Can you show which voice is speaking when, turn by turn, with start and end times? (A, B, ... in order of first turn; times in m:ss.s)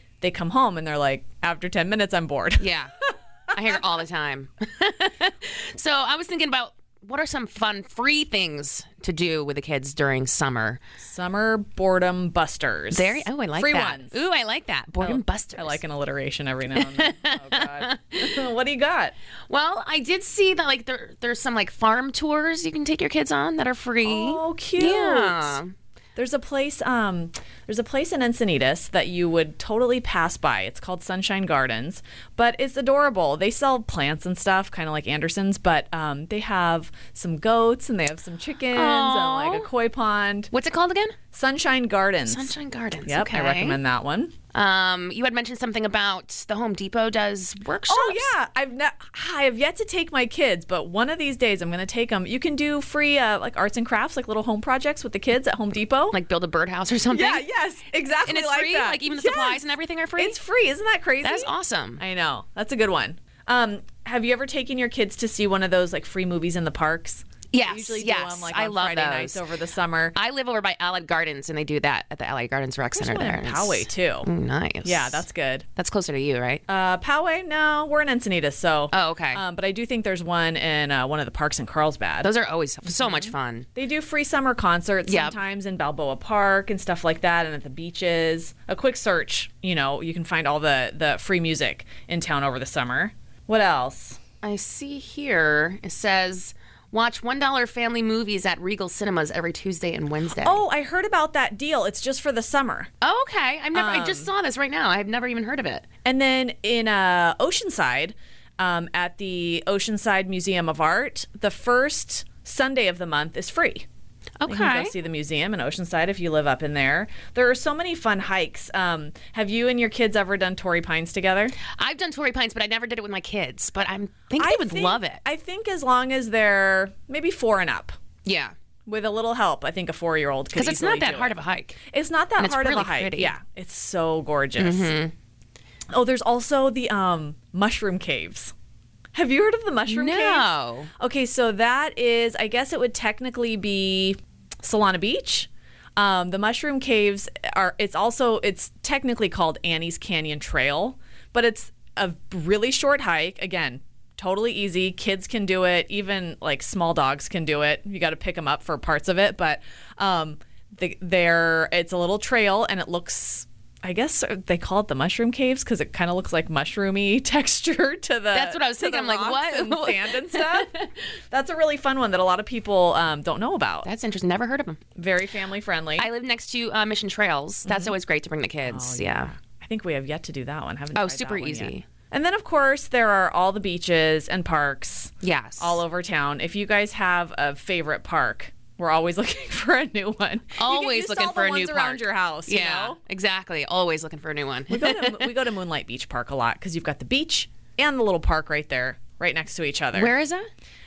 0:00.2-0:02.7 A
0:02.6-0:03.0 B
0:03.5-0:10.8 B
0:11.0-0:14.2 A
0:12.9-0:15.8 B
0:15.0-0:19.2 A
0:16.7-0:18.3 B
0:19.5-0:25.7 B
0:24.0-0:25.6 A
0:26.2-0:40.5 A
0:38.7-0:39.7 B
0:40.5-0:41.2 B
0:41.3-0:42.5 A
0:42.3-0:43.8 B
0:43.1-0:44.3 A
0:44.5-0:48.3 B
0:47.9-0:56.2 A
0:56.1-0:57.4 B
0:57.1-0:59.6 A
0:58.3-1:00.4 B
1:00.2-1:10.2 A
1:01.2-1:02.0 B
1:07.5-1:09.4 B
1:10.2-1:15.2 B
1:13.0-1:14.3 A
1:14.8-1:15.7 A
1:15.8-1:16.6 B
1:16.7-1:22.3 A
1:18.9-1:19.4 B
1:22.2-1:23.7 B
1:22.9-1:34.2 A
1:25.1-1:25.4 B
1:34.4-1:40.6 B
1:40.4-1:42.9 A
1:43.0-1:45.9 B
1:43.7-1:44.3 A
1:46.0-1:53.9 A
1:54.4-1:54.9 B
1:54.5-2:01.6 A
2:01.7-2:05.2 B
2:04.4-2:08.0 A
2:08.2-2:08.5 B
2:08.9-2:11.4 A
2:10.5-2:11.8 B
2:11.9-2:14.9 A
2:12.4-2:13.3 B
2:14.6-2:15.1 B
2:15.9-2:18.5 A
2:19.1-2:53.9 A
2:19.9-2:20.9 B
2:48.3-2:50.9 B
2:53.8-2:54.8 B
2:55.0-2:56.1 A
2:56.0-2:59.3 B
2:57.7-2:58.0 A
2:58.6-3:13.0 A
3:01.0-3:01.9 B
3:05.2-3:05.8 B
3:10.6-3:15.3 B
3:14.7-3:20.1 A
3:20.0-3:20.5 B